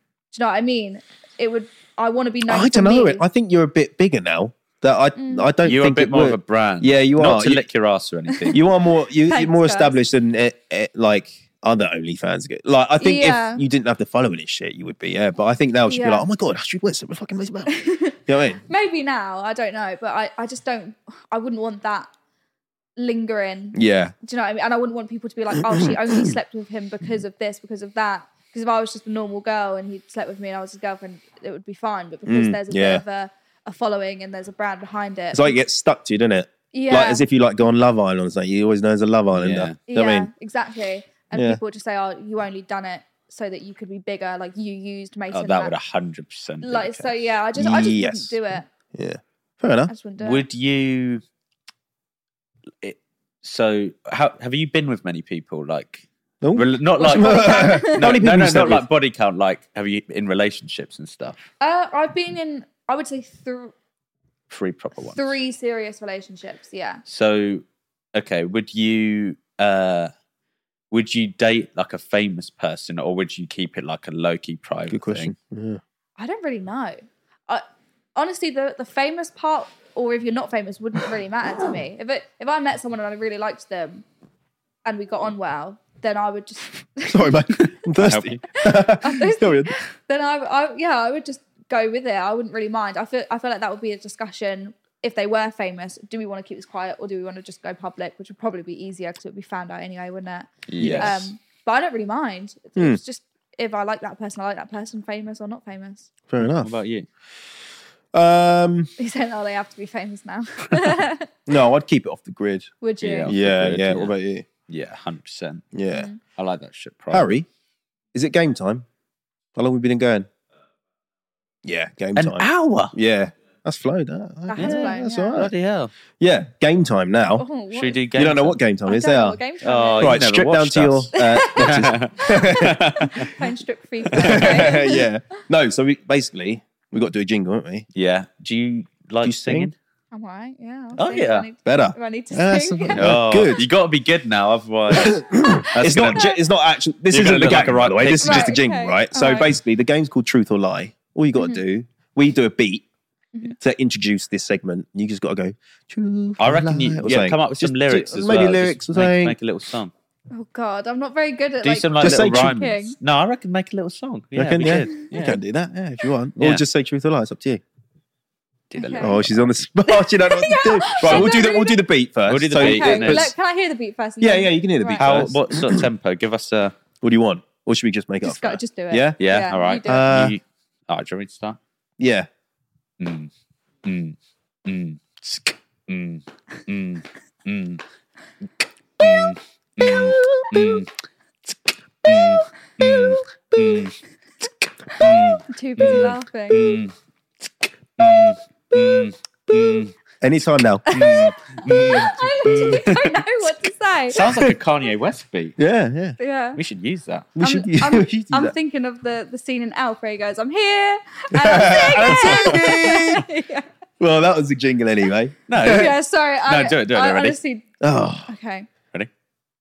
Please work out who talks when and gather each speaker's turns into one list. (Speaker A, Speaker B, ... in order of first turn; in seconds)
Speaker A: 0.3-3.2, 5.2-5.5, 8.3-8.6, 9.2-10.0, 13.0-13.6, 15.9-16.3, 17.7-22.1, 23.0-35.5, 36.7-37.2, 39.9-45.7, 46.6-48.7, 49.9-50.5, 57.0-58.0, 61.6-63.7, 65.0-67.0, 76.2-77.6, 78.2-84.0, 84.8-87.4, 88.5-106.1, 109.0-111.3, 112.8-113.3, 115.9-116.2, 124.5-125.4, 127.4-128.0, 128.9-130.2, 131.1-135.1, 140.1-143.1, 145.4-146.4, 148.2-149.5, 151.4-151.6, 160.3-162.9, 168.8-169.2, 169.9-171.8, 172.6-175.2, 178.2-180.3, 195.0-196.8, 200.9-204.2, 206.2-206.6, 207.4-213.7, 215.6-217.7, 218.3-218.7
Speaker B: 2.5-7.6, 8.5-17.7, 18.3-18.6, 23.7-24.1, 25.7-26.3, 32.3-33.0, 35.3-40.3, 41.3-41.6, 47.6-48.4, 48.9-49.9, 56.4-58.8, 74.9-75.8, 87.1-89.7, 100.8-101.2, 106.3-106.7, 108.1-108.9, 111.5-112.7, 113.3-114.5, 115.7-116.1, 117.1-117.5, 118.1-118.9, 119.6-120.3, 121.7-125.5, 126.2-127.5, 128.1-129.4, 130.0-133.2, 134.1-137.9, 139.2-139.7, 141.7-143.6, 144.9-152.9, 153.6-159.4, 162.0-162.5, 164.3-167.6, 169.0-173.3, 174.2-175.9, 177.0-179.2, 179.8-180.3, 182.0-182.3, 189.9-190.5, 200.2-200.8, 204.2-204.6, 205.6-206.2, 207.4-208.5, 211.3-213.2, 214.0-215.9, 217.8-218.3
Speaker C: 5.6-8.6, 39.4-39.8, 45.3-47.2, 50.2-51.2, 52.8-61.5, 64.5-65.3, 67.1-67.6, 68.2-70.1, 70.9-75.3, 88.0-88.4, 100.7-101.2, 106.4-107.1, 113.0-114.1, 114.7-115.7, 116.4-117.3, 122.2-123.0, 124.6-125.9, 127.7-128.6, 129.6-133.3, 134.1-134.8, 137.9-139.7, 141.0-141.5, 142.9-146.3, 147.1-148.6, 156.4-159.9, 161.6-165.4, 166.4-166.6, 168.7-169.4, 171.0-171.4, 172.3-173.3, 175.0-176.7, 179.2-181.6, 183.0-183.3, 183.8-187.8, 189.0-190.9, 191.5-194.0, 194.9-196.9, 198.0-199.9, 200.9-203.2, 204.1-205.6, 206.6-207.3, 212.1-212.6, 215.5-217.4